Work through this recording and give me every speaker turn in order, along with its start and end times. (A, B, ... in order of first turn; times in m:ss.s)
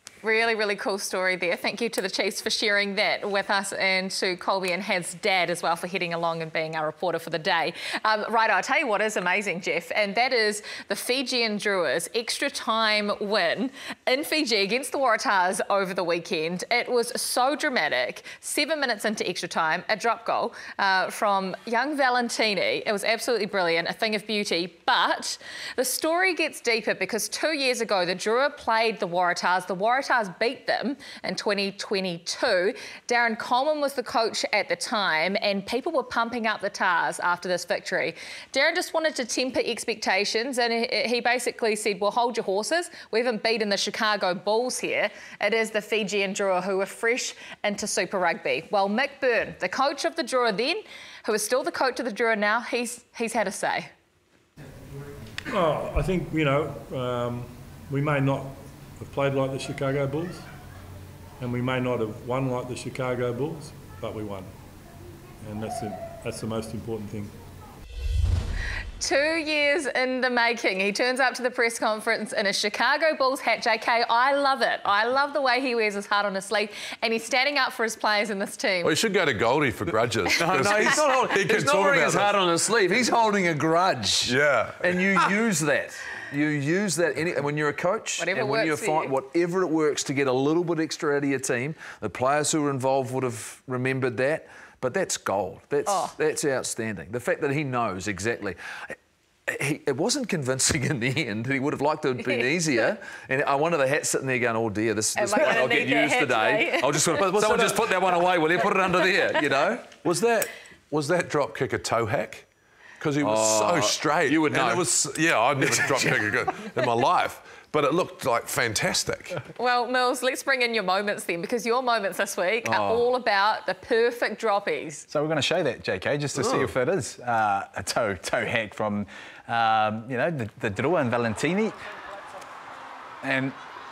0:00.2-0:53.9 A
0:55.5-1:00.5 B
1:01.4-1:04.5 B
1:05.4-1:07.4 B
1:09.0-1:19.0 A
1:18.8-1:22.4 C
1:20.4-1:49.9 D
1:24.3-1:25.3 C
1:28.2-1:29.1 A
1:35.9-1:36.1 A
1:45.2-1:47.2 A
1:47.2-1:47.8 C
1:50.0-1:52.5 C
1:53.0-1:59.4 C
1:53.2-1:55.0 D
1:55.6-1:56.7 D
1:59.6-2:05.1 A
2:02.6-2:03.1 D
2:05.1-2:11.8 E
2:13.2-2:13.6 E